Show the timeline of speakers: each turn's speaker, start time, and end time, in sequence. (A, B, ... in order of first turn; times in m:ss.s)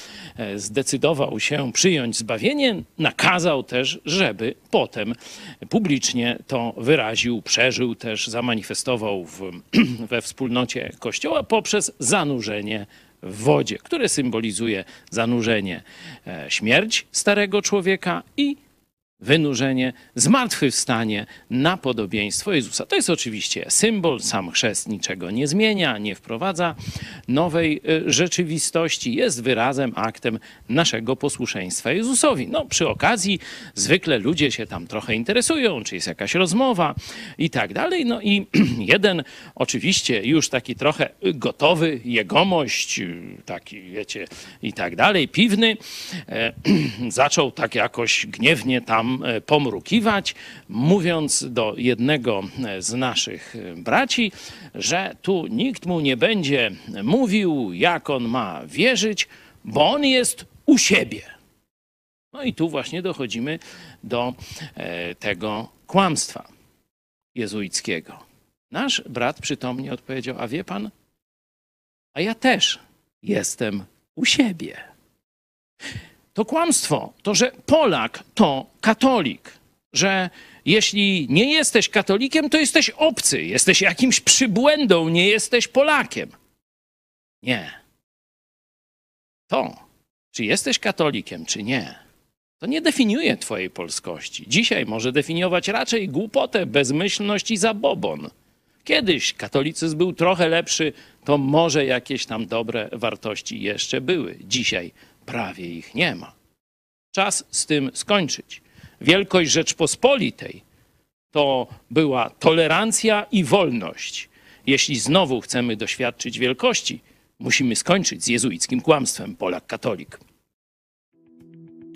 0:00.4-0:18.6 A
0:19.2-1:01.3 A
1:02.3-1:06.5 A
1:07.3-1:10.9 A
1:12.1-1:14.9 A
1:16.4-1:26.3 A
1:27.4-1:27.8 A
1:29.5-1:29.8 A
1:30.3-1:32.0 A
1:32.6-1:38.3 A
1:38.8-1:46.3 A
1:47.1-1:50.6 A
1:51.3-2:00.2 A